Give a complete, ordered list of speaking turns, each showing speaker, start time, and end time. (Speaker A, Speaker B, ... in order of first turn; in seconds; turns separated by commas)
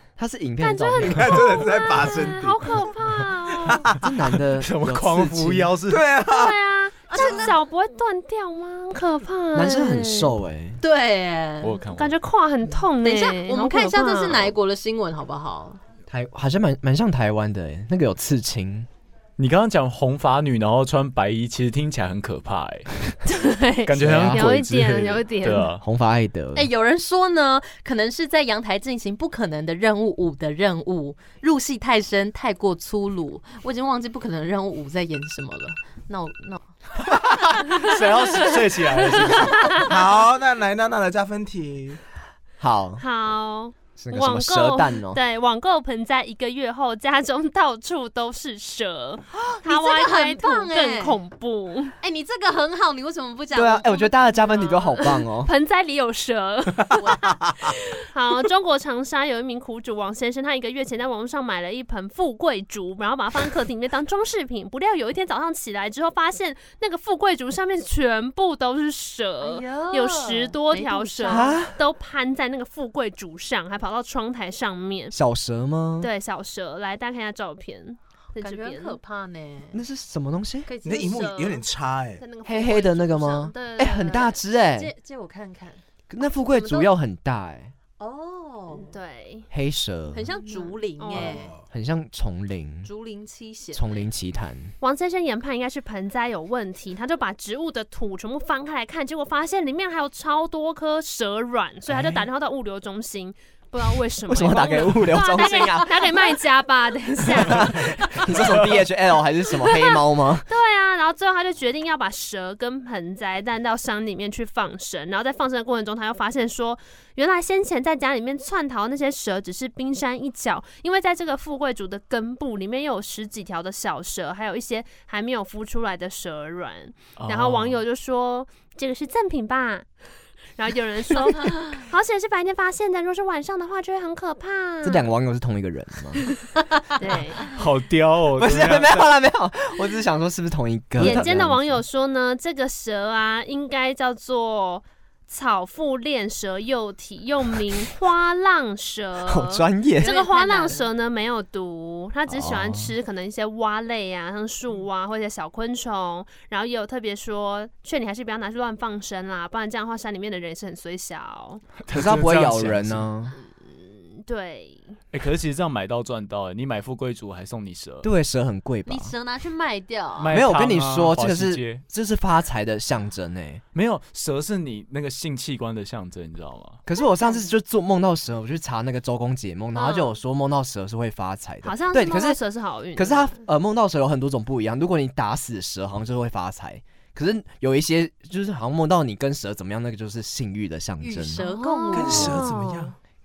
Speaker A: 0.2-1.5, Speaker B: 0.6-3.9, Speaker C: 1.0-2.6, Speaker C: 3.7-4.1, Speaker A: 3.9-5.7, Speaker D: 4.5-6.0, Speaker C: 5.9-6.5, Speaker B: 6.2-10.3, Speaker E: 7.1-7.5, Speaker C: 7.1-7.5, Speaker A: 9.5-10.8, Speaker E: 10.8-11.8, Speaker D: 11.6-12.2, Speaker B: 11.9-14.5, Speaker E: 13.0-15.8, Speaker A: 16.1-18.9, Speaker D: 19.4-23.0, Speaker B: 23.2-25.8, Speaker D: 23.8-25.8, Speaker A: 24.0-24.6, Speaker A: 25.7-26.7, Speaker E: 26.5-36.6, Speaker D: 37.3-39.8, Speaker B: 37.7-39.9, Speaker C: 39.8-42.0, Speaker A: 42.6-43.0, Speaker B: 43.0-51.9, Speaker A: 44.0-45.2, Speaker E: 49.4-51.2, Speaker E: 52.0-54.1, Speaker A: 53.5-55.5, Speaker B: 54.2-75.1, Speaker E: 56.9-57.4, Speaker E: 69.4-71.6, Speaker A: 71.3-71.8, Speaker A: 75.1-76.1, Speaker B: 76.0-79.0, Speaker E: 78.3-79.8, Speaker A: 79.7-80.7, Speaker E: 80.7-81.3, Speaker C: 80.8-82.2, Speaker B: 80.9-81.6, Speaker B: 82.2-84.4, Speaker A: 82.4-84.9, Speaker E: 84.7-85.8, Speaker A: 86.1-87.7, Speaker E: 86.4-86.9, Speaker E: 88.0-88.9, Speaker B: 88.7-89.5, Speaker A: 89.5-90.2, Speaker E: 90.1-91.5, Speaker B: 90.5-91.5, Speaker C: 91.1-91.6, Speaker A: 91.7-92.9, Speaker E: 92.8-94.0, Speaker A: 93.7-94.7, Speaker B: 94.8-108.4, Speaker A: 101.9-102.2, Speaker A: 104.3-106.2, Speaker E: 105.3-105.8, Speaker A: 107.3-110.5, Speaker D: 108.3-108.8, Speaker B: 109.5-129.9, Speaker D: 127.2-127.8, Speaker B: 130.6-135.0, Speaker A: 134.8-136.3, Speaker B: 136.9-137.5, Speaker D: 137.4-139.1, Speaker A: 138.4-141.8, Speaker B: 141.0-161.6, Speaker A: 149.3-150.1, Speaker E: 150.0-150.9, Speaker A: 152.3-152.9, Speaker D: 161.8-163.1, Speaker A: 161.9-163.3, Speaker B: 163.7-164.9, Speaker D: 165.1-168.1, Speaker A: 168.0-169.1, Speaker E: 168.8-170.3, Speaker D: 170.2-171.8, Speaker A: 170.3-173.6, Speaker D: 173.7-176.8, Speaker A: 176.8-182.4, Speaker B: 179.7-180.1, Speaker B: 181.6-183.4, Speaker A: 182.9-191.4, Speaker E: 191.0-192.5, Speaker B: 191.3-192.9, Speaker C: 191.9-192.9